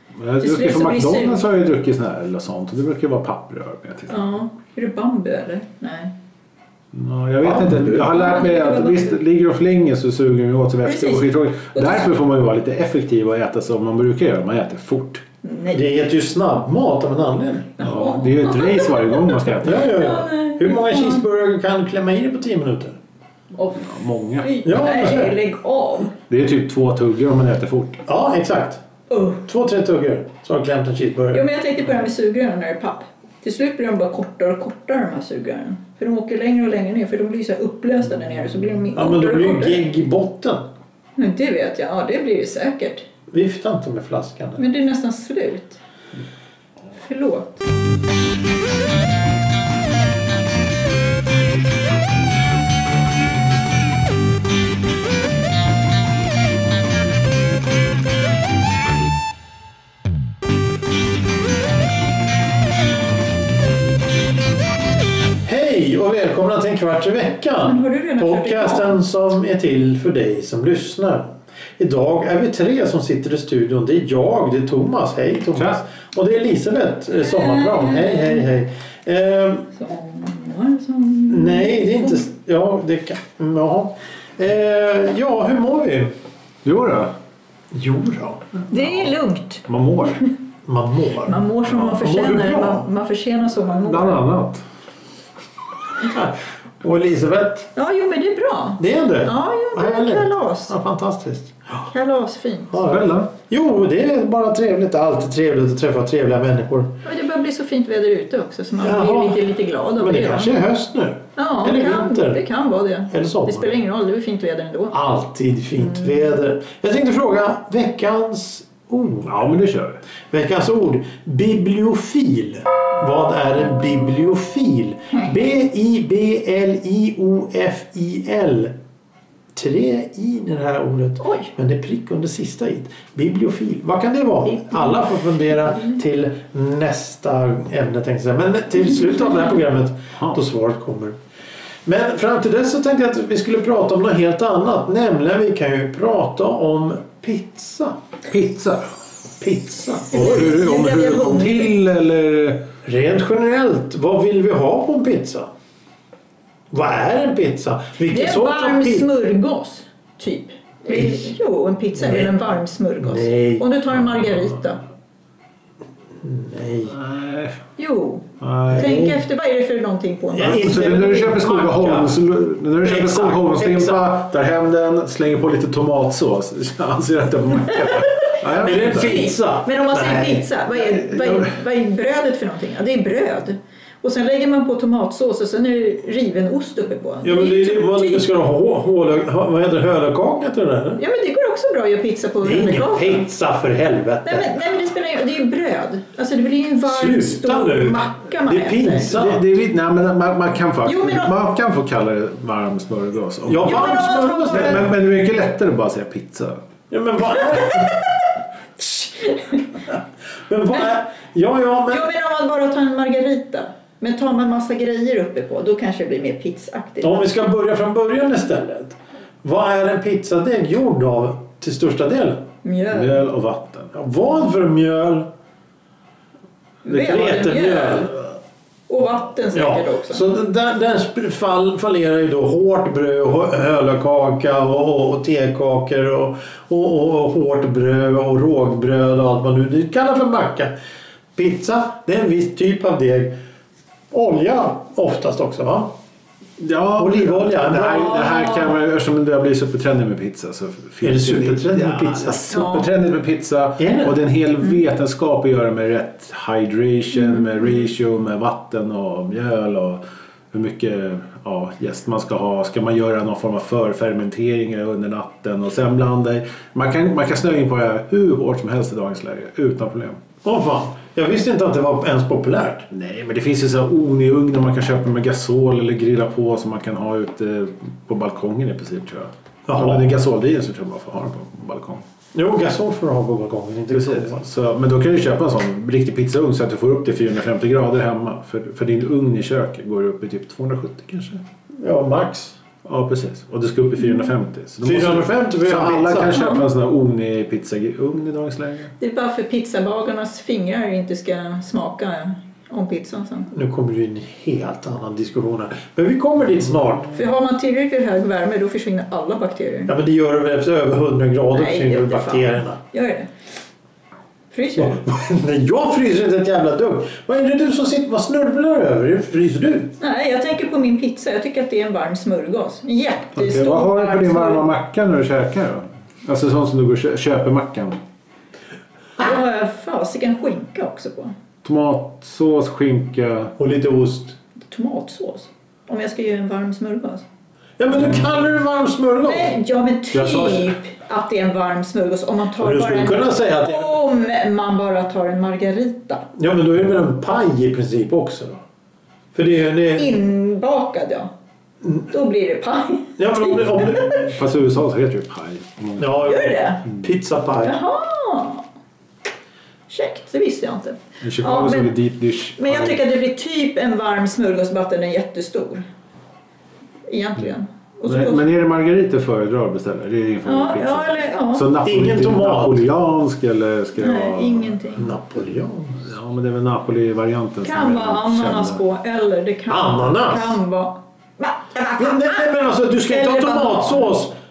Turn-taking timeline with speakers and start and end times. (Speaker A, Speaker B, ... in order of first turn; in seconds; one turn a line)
Speaker A: 0.2-4.3
Speaker B: 0.4-1.4
Speaker B: 4.1-6.1
Speaker A: 6.9-15.2
Speaker C: 7.4-8.1
Speaker B: 7.9-9.2
Speaker B: 10.8-12.1
Speaker B: 15.4-15.9
Speaker C: 15.7-17.8
Speaker B: 17.8-21.2
Speaker A: 17.8-19.9
Speaker C: 19.6-23.0
Speaker B: 23.6-26.1
Speaker A: 23.8-24.6
Speaker C: 24.6-25.4
Speaker A: 26.3-28.0
Speaker C: 28.1-28.8
Speaker B: 29.1-29.4
Speaker C: 29.4-31.4
Speaker B: 31.3-39.9
Speaker C: 39.0-40.7
Speaker B: 41.2-43.1
Speaker C: 43.3-44.6
Speaker B: 44.6-45.8
Speaker B: 46.9-47.6
Speaker C: 65.5-79.7
Speaker B: 67.6-69.0
Speaker B: 77.2-78.5
Speaker B: 79.8-82.3
Speaker C: 81.3-86.1
Speaker A: 86.7-87.1
Speaker C: 87.7-88.5
Speaker B: 88.7-90.3
Speaker A: 88.8-89.1
Speaker A: 89.7-90.2
Speaker C: 90.7-92.9
Speaker B: 91.2-94.3
Speaker A: 93.8-94.6
Speaker C: 96.0-97.7
Speaker B: 97.8-100.7
Speaker C: 98.8-101.9
Speaker B: 101.9-102.8
Speaker C: 102.7-107.0
Speaker A: 102.9-103.3
Speaker B: 107.0-110.6
Speaker C: 108.8-112.4
Speaker B: 111.4-115.0
Speaker C: 113.1-113.7
Speaker C: 114.9-119.5
Speaker B: 115.8-116.3
Speaker A: 119.3-120.0
Speaker C: 120.3-128.8
Speaker C: 129.6-141.2
Speaker B: 131.2-131.5
Speaker B: 134.5-136.0
Speaker C: 141.9-148.0
Speaker A: 148.3-148.9
Speaker C: 149.4-150.6
Speaker B: 150.1-151.7
Speaker A: 150.1-152.7
Speaker C: 152.8-155.5
Speaker C: 156.7-159.1
Speaker B: 158.1-164.8
Speaker C: 160.9-161.3
Speaker C: 161.9-162.4
Speaker C: 163.0-163.7
Speaker C: 166.2-167.0
Speaker A: 166.9-167.6
Speaker B: 167.8-171.5
Speaker A: 168.4-169.1
Speaker C: 168.7-169.2
Speaker C: 170.3-172.2
Speaker A: 170.4-179.2
Speaker C: 172.8-174.1
Speaker C: 178.5-180.5
Speaker B: 178.6-188.3
Speaker C: 187.2-191.0
Speaker B: 191.0-193.3
Speaker C: 192.4-194.7
Speaker B: 194.2-199.1
Speaker C: 196.8-199.5
Speaker A: 199.1-203.9
Speaker B: 200.8-201.3
Speaker C: 203.4-204.9
Speaker B: 203.6-204.9
Speaker A: 204.5-206.6
Speaker C: 206.9-208.0
Speaker C: 208.8-209.1
Speaker C: 210.5-212.0
Speaker B: 211.9-217.2
Speaker C: 217.0-222.4
Speaker B: 222.6-223.2
Speaker A: 222.9-223.9
Speaker C: 223.9-225.3
Speaker B: 226.8-228.1
Speaker C: 226.9-228.1
Speaker B: 228.9-230.2
Speaker C: 229.5-240.8
Speaker C: 241.4-243.4
Speaker C: 244.1-245.9
Speaker A: 246.6-270.2
Speaker C: 247.0-248.4
Speaker B: 248.3-248.8
Speaker C: 251.0-252.4
Speaker B: 252.5-252.9
Speaker C: 253.8-254.2
Speaker B: 257.2-257.5
Speaker C: 270.4-272.9
Speaker A: 272.9-282.0
Speaker C: 279.7-280.1
Speaker C: 282.3-284.4
Speaker A: 283.9-291.4
Speaker C: 291.8-292.6
Speaker A: 292.8-298.9
Speaker C: 294.8-296.4
Speaker B: 296.3-296.6
Speaker B: 299.0-303.5
Speaker C: 303.5-307.1
Speaker B: 307.1-309.9
Speaker C: 309.9-312.8
Speaker B: 311.6-313.3
Speaker B: 314.5-315.0
Speaker C: 314.8-319.9
Speaker B: 320.0-324.7
Speaker A: 323.4-328.0
Speaker B: 329.2-331.3
Speaker A: 331.6-333.6
Speaker C: 333.6-334.4
Speaker B: 334.7-337.2
Speaker C: 337.8-339.6
Speaker B: 339.2-346.3
Speaker A: 340.2-340.6
Speaker C: 342.6-344.0
Speaker C: 346.4-348.6
Speaker C: 349.3-350.2
Speaker B: 349.9-351.3
Speaker B: 352.1-354.2
Speaker C: 353.2-354.2
Speaker A: 353.5-356.3
Speaker C: 356.0-357.8
Speaker B: 356.2-356.9
Speaker B: 357.6-358.7
Speaker B: 359.9-361.9
Speaker A: 361.2-363.0
Speaker B: 362.6-365.9
Speaker B: 367.1-368.4
Speaker A: 368.1-374.8
Speaker B: 370.4-371.7
Speaker C: 371.8-372.9
Speaker B: 374.0-375.1
Speaker C: 375.0-376.1
Speaker A: 376.0-378.8
Speaker B: 377.6-382.5
Speaker C: 379.7-380.6
Speaker C: 382.0-384.3
Speaker B: 383.0-384.2